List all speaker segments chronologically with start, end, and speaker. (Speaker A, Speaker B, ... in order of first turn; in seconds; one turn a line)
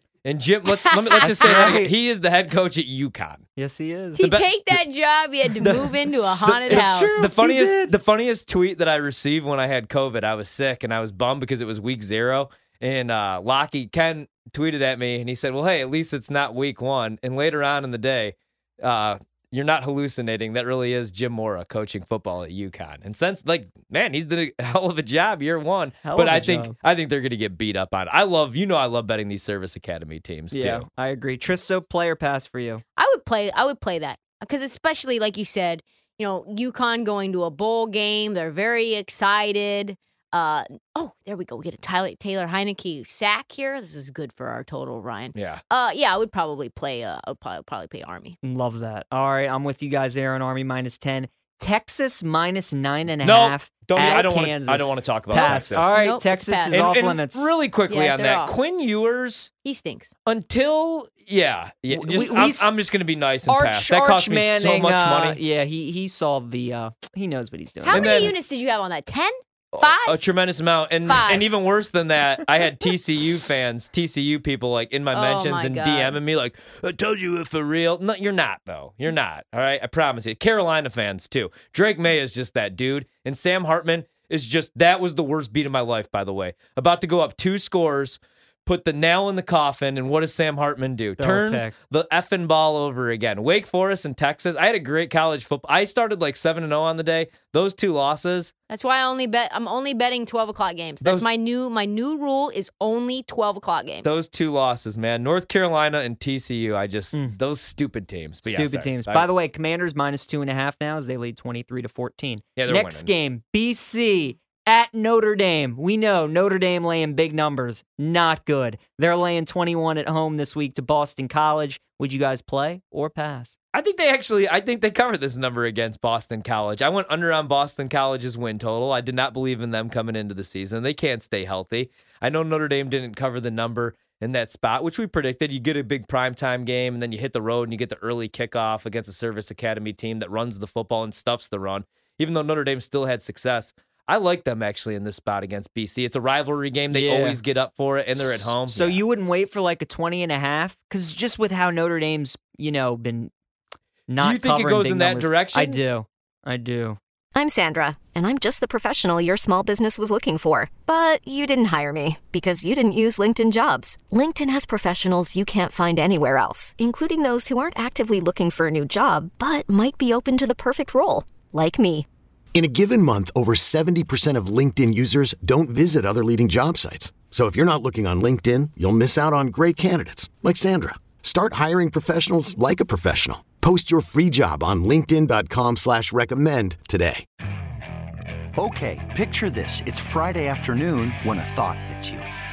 Speaker A: 0.2-3.4
Speaker B: 0.7-1.7
Speaker C: 1.2-1.9
Speaker C: 3.6-4.2
Speaker B: 4.2-7.2
Speaker A: 4.2-4.8
Speaker A: 5.6-30.9
Speaker C: 6.7-7.9
Speaker C: 26.0-26.7
Speaker C: 30.5-32.8
Speaker B: 33.0-48.4
Speaker A: 45.3-45.6
Speaker C: 48.4-57.5
Speaker A: 53.2-56.0
Speaker B: 55.3-56.8
Speaker A: 56.7-59.5
Speaker B: 57.9-58.5
Speaker B: 59.6-60.1
Speaker A: 60.3-65.4
Speaker C: 61.9-62.7
Speaker C: 63.5-68.3
Speaker B: 67.8-70.2
Speaker A: 67.9-68.4
Speaker A: 69.7-98.5
Speaker B: 71.0-71.5
Speaker B: 75.1-76.2
Speaker C: 91.2-91.7
Speaker B: 98.7-104.1
Speaker A: 101.0-101.3
Speaker A: 104.0-109.3
Speaker C: 108.4-123.5
Speaker A: 112.6-113.1
Speaker A: 123.7-149.0
Speaker C: 146.9-147.4
Speaker C: 148.1-153.3
Speaker C: 154.1-157.0
Speaker A: 154.2-155.8
Speaker D: 157.3-172.1
Speaker E: 172.6-187.2
Speaker F: 188.6-192.2